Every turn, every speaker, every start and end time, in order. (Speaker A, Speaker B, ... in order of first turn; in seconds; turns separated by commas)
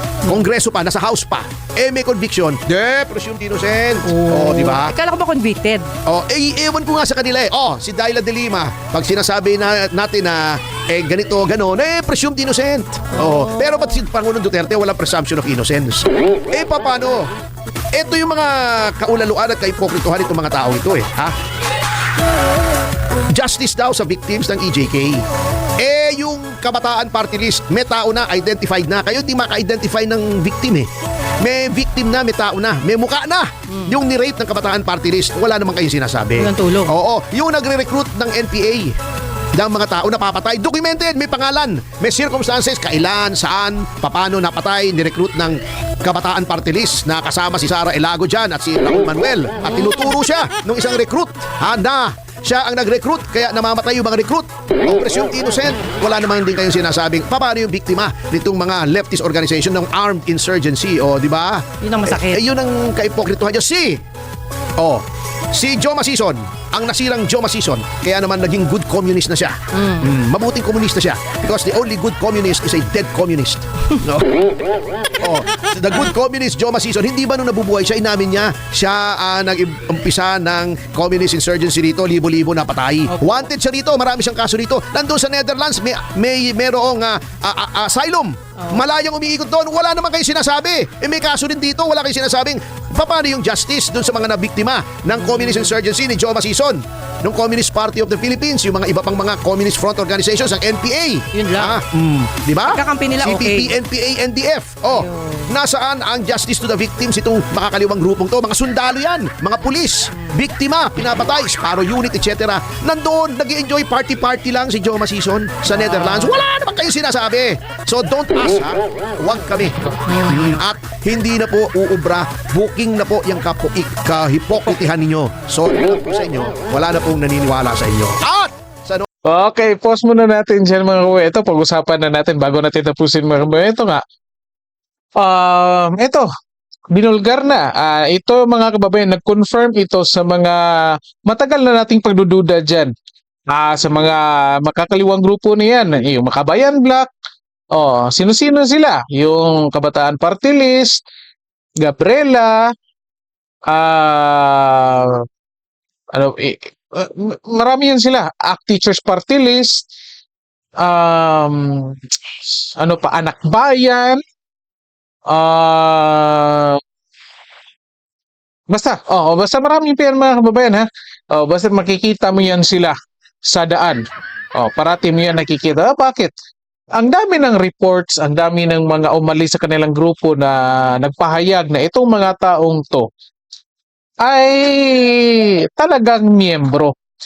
Speaker A: 0.2-4.9, Speaker B: 4.0-5.9, Speaker A: 6.1-17.2, Speaker B: 13.2-13.8, Speaker A: 17.9-21.3, Speaker A: 23.3-25.2, Speaker A: 25.8-30.9, Speaker A: 31.4-38.9, Speaker B: 36.4-36.9, Speaker A: 39.5-64.0, Speaker B: 49.7-50.0, Speaker B: 61.8-62.4, Speaker A: 64.8-74.3, Speaker B: 69.7-70.1, Speaker A: 75.2-129.1, Speaker B: 83.1-83.5, Speaker B: 95.2-95.7, Speaker B: 101.3-101.8, Speaker B: 102.7-103.8, Speaker B: 104.9-105.5, Speaker B: 115.8-116.4, Speaker B: 120.0-120.6, Speaker C: 129.2-134.0, Speaker C: 135.2-136.3, Speaker C: 136.9-142.9, Speaker C: 143.5-147.1, Speaker C: 147.7-151.0, Speaker C: 151.8-152.7, Speaker C: 153.7-155.2, Speaker C: 156.1-159.8, Speaker C: 160.8-164.2, Speaker C: 165.3-166.8, Speaker C: 168.7-176.3, Speaker C: 176.9-183.1, Speaker C: 184.2-186.9